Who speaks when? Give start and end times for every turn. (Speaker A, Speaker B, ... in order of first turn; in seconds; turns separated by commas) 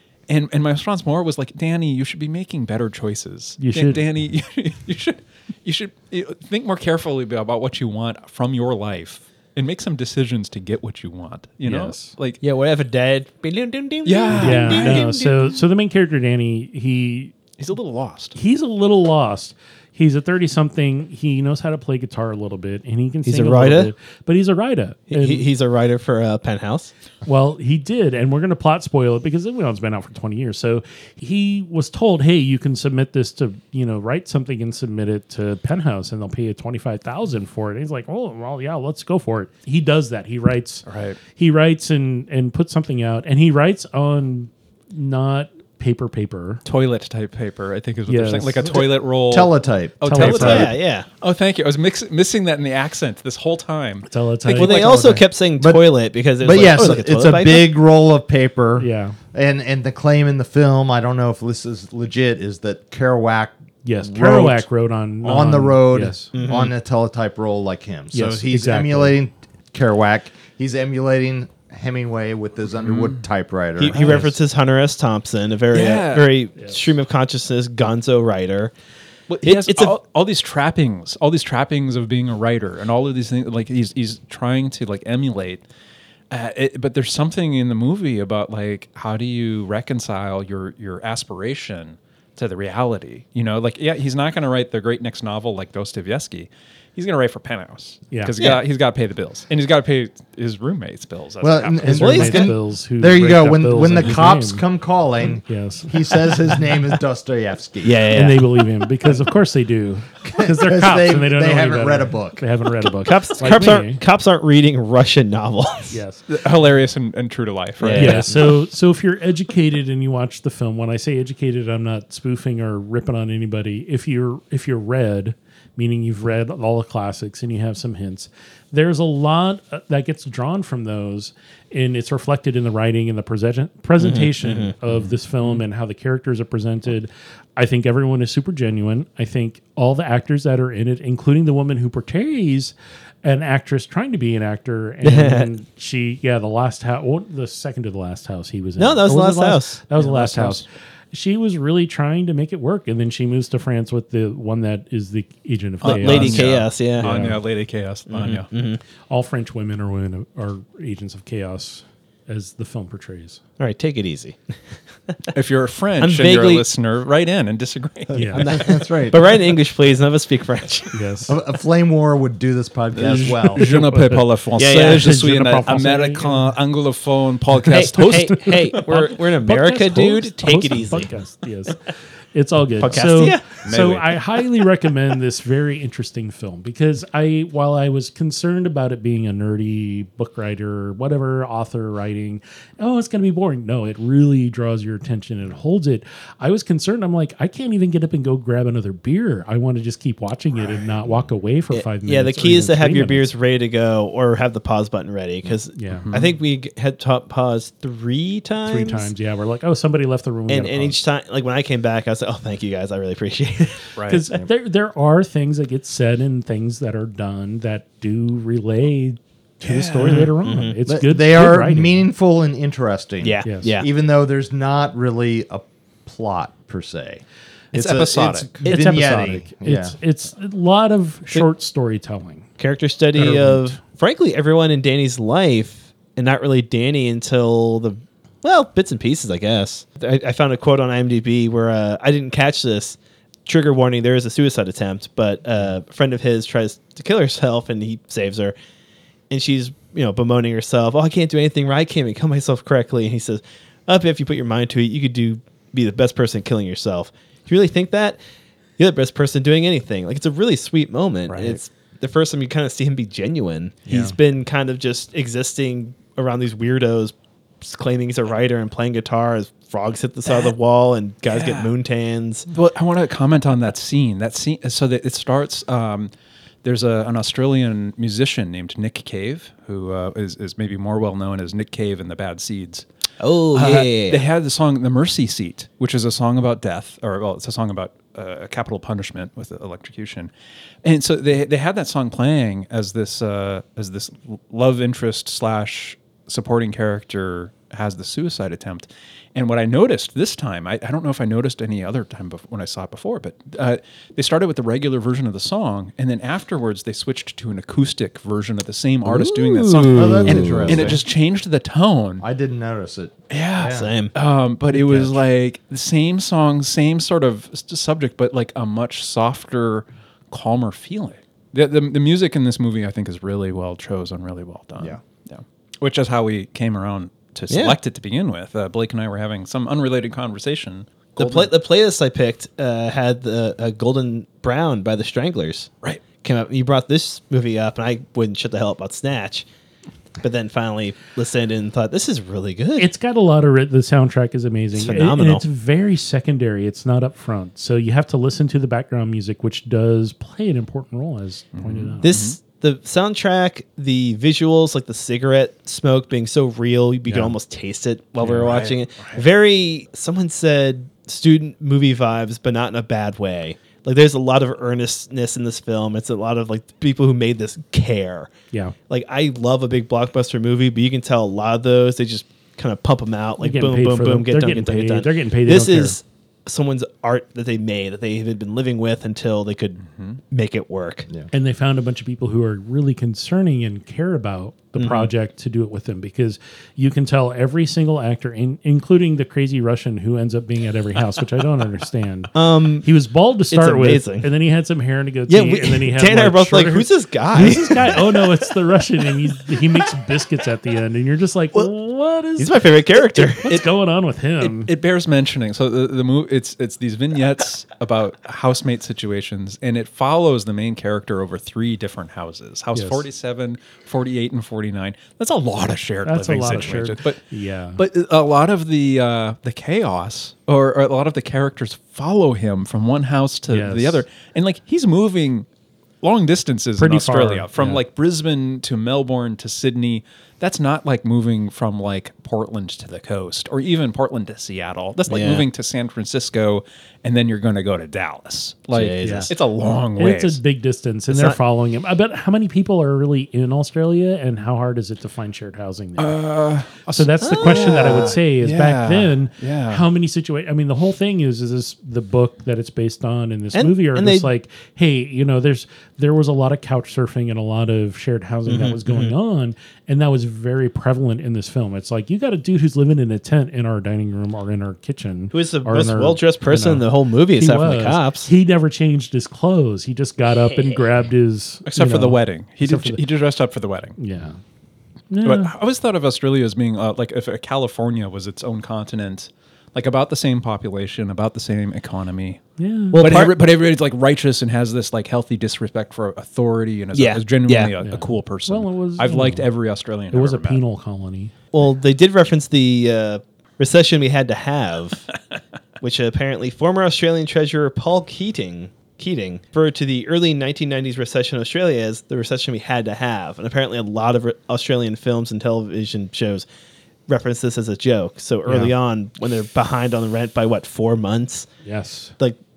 Speaker A: 0.3-12.4, Speaker B: 3.6-4.0, Speaker B: 11.6-12.1, Speaker C: 12.4-15.5, Speaker A: 14.1-15.1, Speaker B: 14.4-17.3, Speaker A: 17.6-18.3, Speaker B: 18.3-25.5, Speaker C: 23.2-23.9, Speaker C: 25.1-26.9, Speaker B: 27.2-46.6, Speaker A: 40.9-41.2, Speaker A: 46.6-55.2, Speaker B: 48.1-48.6, Speaker D: 49.3-50.7, Speaker B: 50.0-50.7, Speaker C: 50.2-51.1, Speaker B: 54.1-55.2, Speaker C: 54.6-57.7, Speaker D: 55.6-64.6, Speaker B: 58.8-59.1, Speaker B: 63.8-66.3, Speaker D: 65.2-74.3, Speaker C: 66.3-66.7, Speaker B: 68.1-69.2, Speaker A: 72.9-73.1, Speaker C: 73.8-78.7, Speaker B: 74.0-74.3, Speaker A: 75.7-76.4, Speaker A: 79.3-85.6, Speaker C: 79.4-79.9, Speaker A: 86.3-102.2, Speaker B: 98.1-98.3, Speaker D: 101.4-108.2, Speaker C: 101.8-102.5, Speaker B: 101.8-104.6, Speaker B: 105.5-106.5, Speaker C: 107.8-108.5, Speaker B: 108.1-114.0, Speaker D: 110.2-112.4, Speaker C: 113.0-116.0, Speaker B: 115.9-116.2, Speaker A: 116.3-118.5, Speaker C: 117.8-118.5, Speaker B: 117.9-157.4, Speaker C: 134.0-134.7, Speaker A: 134.9-135.6, Speaker C: 145.0-145.5, Speaker C: 148.8-149.8, Speaker A: 149.9-150.6, Speaker C: 155.8-157.1, Speaker A: 155.8-158.5, Speaker C: 158.1-158.8, Speaker B: 159.1-163.4, Speaker C: 163.6-164.6, Speaker A: 165.3-168.6, Speaker C: 166.0-166.7, Speaker B: 168.1-168.5, Speaker D: 168.3-169.3, Speaker C: 168.3-171.1, Speaker B: 170.9-171.3, Speaker D: 171.3-173.7, Speaker A: 172.9-180.3, Speaker B: 173.1-176.5, Speaker C: 174.6-175.8, Speaker B: 177.6-178.8, Speaker C: 177.7-181.1, Speaker B: 179.4-203.3, Speaker C: 182.8-183.6, Speaker A: 183.6-184.2, Speaker C: 201.7-209.1, Speaker B: 205.7-206.1, Speaker A: 205.9-206.4, Speaker B: 208.7-211.0, Speaker C: 210.5-213.8, Speaker A: 213.9-214.3, Speaker B: 214.0-222.0, Speaker A: 219.6-220.3, Speaker C: 220.0-220.8, Speaker D: 220.9-229.9, Speaker C: 223.2-223.9, Speaker B: 223.4-223.7, Speaker A: 227.7-228.7, Speaker B: 228.6-232.4, Speaker C: 232.6-248.6, Speaker B: 233.2-233.7, Speaker C: 249.3-258.2, Speaker C: 258.8-272.5, Speaker B: 261.3-261.6, Speaker B: 263.9-264.2, Speaker A: 271.3-271.7, Speaker A: 272.5-276.1, Speaker A: 276.6-282.8, Speaker C: 283.2-284.2, Speaker A: 283.5-290.3, Speaker A: 290.8-312.2, Speaker C: 309.1-311.0, Speaker D: 309.9-311.0, Speaker D: 312.2-313.9, Speaker A: 313.3-331.5, Speaker C: 313.7-314.1, Speaker C: 327.5-327.8, Speaker C: 331.2-339.4, Speaker C: 340.2-342.9, Speaker B: 342.8-352.1, Speaker C: 344.7-345.4, Speaker A: 351.6-352.4, Speaker C: 352.0-368.3, Speaker B: 357.1-357.3, Speaker A: 358.2-359.2, Speaker C: 368.9-381.1, Speaker B: 373.4-376.0, Speaker A: 379.9-380.2, Speaker B: 381.3-404.7, Speaker C: 384.8-385.1, Speaker C: 392.3-392.9, Speaker C: 393.5-394.3, Speaker C: 395.3-398.0, Speaker C: 402.4-403.6, Speaker A: 404.4-417.2, Speaker B: 412.7-413.1, Speaker B: 416.1-417.8, Speaker A: 417.8-425.4, Speaker B: 423.5-424.1, Speaker A: 426.0-440.4, Speaker B: 426.8-427.8, Speaker C: 435.1-435.4, Speaker C: 438.7-439.3, Speaker B: 439.0-439.3, Speaker B: 439.9-446.2, Speaker C: 441.1-441.4, Speaker A: 446.0-449.8, Speaker B: 446.9-473.0, Speaker C: 447.2-448.2, Speaker C: 453.5-454.3, Speaker C: 458.5-459.1, Speaker C: 465.3-468.3, Speaker C: 470.3-470.9, Speaker A: 471.6-473.9, Speaker B: 474.0-474.4, Speaker B: 475.1-475.5, Speaker A: 475.2-482.4, Speaker B: 482.6-483.1, Speaker C: 482.9-483.3, Speaker A: 482.9-490.6, Speaker C: 486.9-487.7, Speaker B: 487.8-489.5, Speaker B: 490.1-491.3, Speaker C: 491.5-495.1, Speaker C: 495.8-506.4, Speaker C: 507.1-511.5, Speaker B: 508.4-508.7, Speaker B: 511.6-512.1